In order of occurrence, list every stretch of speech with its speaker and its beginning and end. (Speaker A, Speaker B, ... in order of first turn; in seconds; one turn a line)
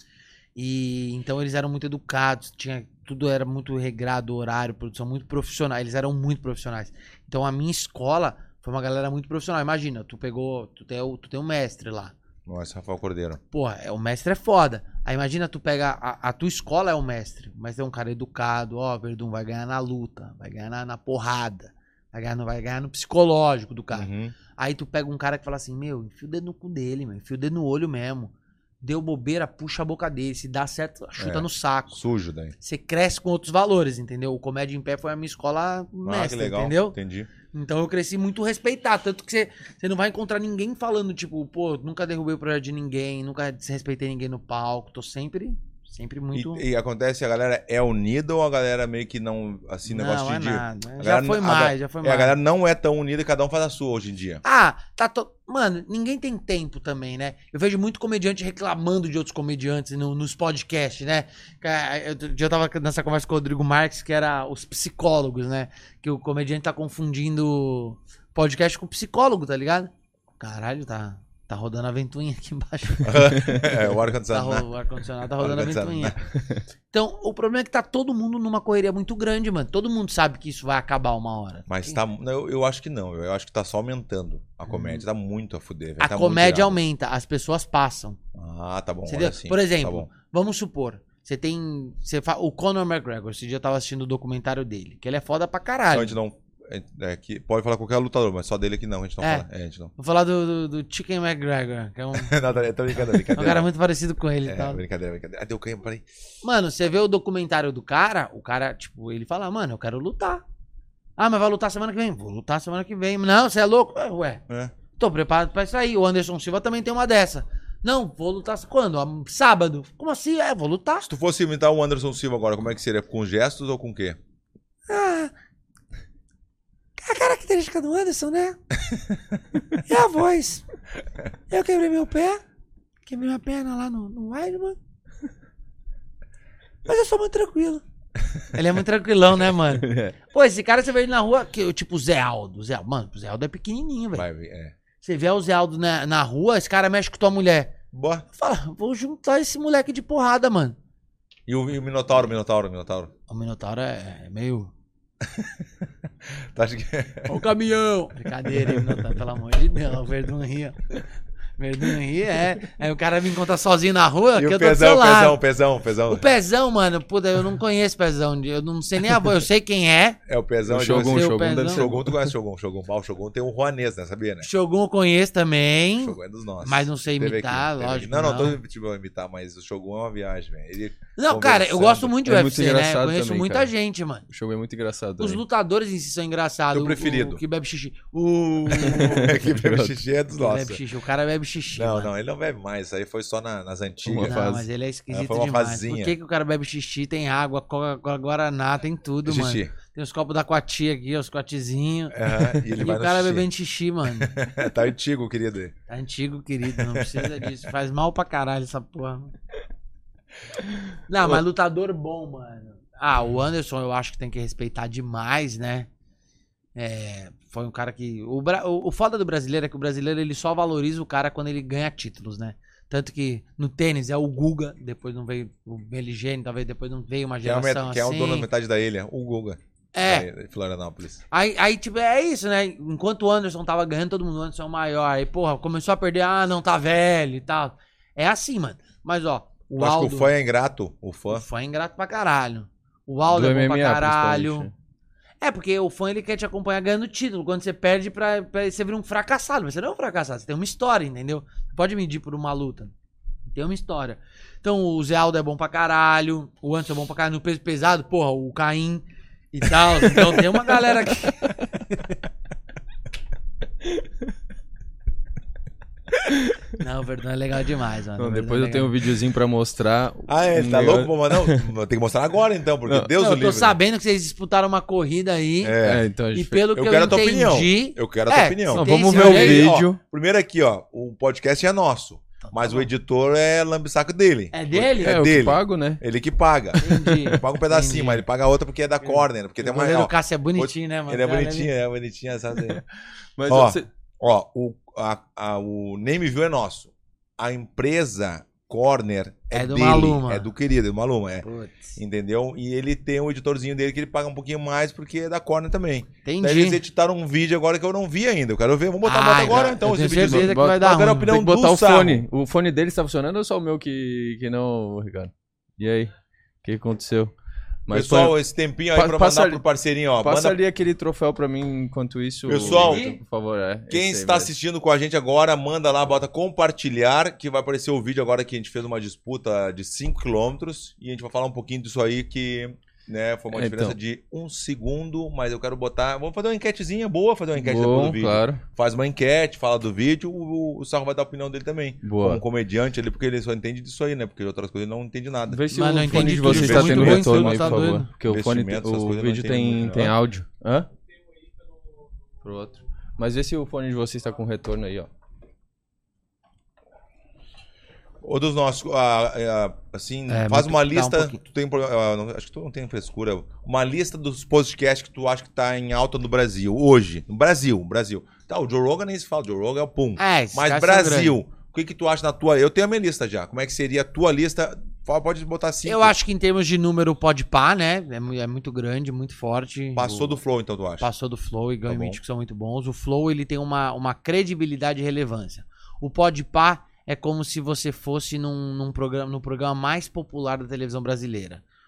Speaker A: 0.6-12.1
Speaker B: 12.4-13.4
Speaker A: 13.5-32.0
Speaker B: 23.9-24.3
Speaker B: 31.2-32.5
Speaker A: 32.6-37.0
Speaker B: 36.0-37.3
Speaker A: 37.5-46.6
Speaker B: 46.3-54.4
Speaker A: 49.9-52.4
Speaker A: 54.4-76.2
Speaker B: 73.0-74.7
Speaker B: 75.4-76.2
Speaker A: 76.9-82.0
Speaker B: 81.7-86.8
Speaker A: 84.7-85.0
Speaker A: 86.0-88.2
Speaker B: 88.3-90.1
Speaker A: 89.1-96.2
Speaker B: 95.9-99.9
Speaker A: 99.2-102.3
Speaker B: 102.1-103.7
Speaker A: 103.3-104.8
Speaker B: 104.4-106.1
Speaker A: 106.4-110.4
Speaker A: 111.2-114.4
Speaker B: 114.5-114.7
Speaker A: 114.9-121.1
Speaker B: 121.0-124.2
Speaker A: 124.9-125.3
Speaker A: 127.0-128.6
Speaker A: 129.8-130.6
Speaker A: 131.5-132.4
Speaker A: 133.1-134.8
Speaker A: 136.8-137.8
Speaker A: 138.5-144.2
Speaker C: 139.8-140.1
Speaker B: 144.1-144.7
Speaker A: 145.0-147.7
Speaker B: 147.9-148.2
Speaker A: 148.3-150.8
Speaker B: 151.5-153.1
Speaker A: 153.3-154.7
Speaker B: 156.5-157.4
Speaker A: 157.3-161.0
Speaker B: 158.7-158.9
Speaker A: 161.6-165.4
Speaker B: 164.3-166.3
Speaker A: 166.1-170.2
Speaker B: 170.2-174.5
Speaker C: 170.7-172.3
Speaker A: 170.9-171.9
Speaker A: 174.4-178.6
Speaker B: 176.0-182.1
Speaker A: 181.2-184.2
Speaker C: 182.2-183.7
Speaker C: 184.3-185.4
Speaker A: 185.2-189.4
Speaker B: 186.7-187.4
Speaker C: 188.7-190.0
Speaker B: 189.1-190.8
Speaker A: 190.3-192.1
Speaker B: 191.7-194.4
Speaker C: 194.0-194.7
Speaker A: 194.2-202.2
Speaker B: 195.1-196.1
Speaker B: 199.2-199.7
Speaker B: 202.1-203.5
Speaker A: 202.7-204.5
Speaker B: 204.2-205.7
Speaker A: 205.9-209.3
Speaker B: 206.8-207.4
Speaker A: 211.1-215.9
Speaker A: 216.7-228.5
Speaker B: 227.4-231.2
Speaker A: 229.9-230.3
Speaker A: 231.3-240.3
Speaker B: 239.8-241.4
Speaker A: 241.3-244.7
Speaker C: 243.2-244.7
Speaker A: 245.4-252.9
Speaker A: 253.5-262.1
Speaker C: 266.2-266.6
Speaker A: 266.8-268.9
Speaker C: 268.2-271.7
Speaker B: 270.3-273.8
Speaker C: 272.9-273.1
Speaker A: 273.1-275.8
Speaker B: 275.6-276.1
Speaker C: 275.8-276.6
Speaker A: 276.3-279.7
Speaker B: 276.7-292.8
Speaker C: 278.7-280.0
Speaker A: 282.4-282.9
Speaker A: 284.5-285.2
Speaker C: 285.0-286.0
Speaker A: 286.8-288.2
Speaker C: 286.8-287.4
Speaker A: 289.0-291.7
Speaker C: 293.4-293.9
Speaker B: 293.5-312.2
Speaker A: 299.5-300.5
Speaker A: 301.4-302.0
Speaker A: 306.2-306.8
Speaker A: 309.0-311.3
Speaker C: 309.8-316.1
Speaker C: 316.6-317.3
Speaker C: 317.9-318.4
Speaker B: 317.9-320.6
Speaker C: 318.9-319.6
Speaker C: 320.2-324.5
Speaker B: 322.4-323.1
Speaker A: 322.6-323.2
Speaker B: 323.9-350.1
Speaker C: 333.5-334.0
Speaker C: 337.5-338.6
Speaker C: 342.0-342.4
Speaker C: 345.5-350.9
Speaker A: 345.7-348.1
Speaker C: 352.4-355.1
Speaker B: 358.2-376.1
Speaker A: 360.3-361.4
Speaker A: 370.2-371.4
Speaker A: 375.8-380.4
Speaker B: 379.9-381.1
Speaker A: 381.0-391.6
Speaker B: 381.9-382.2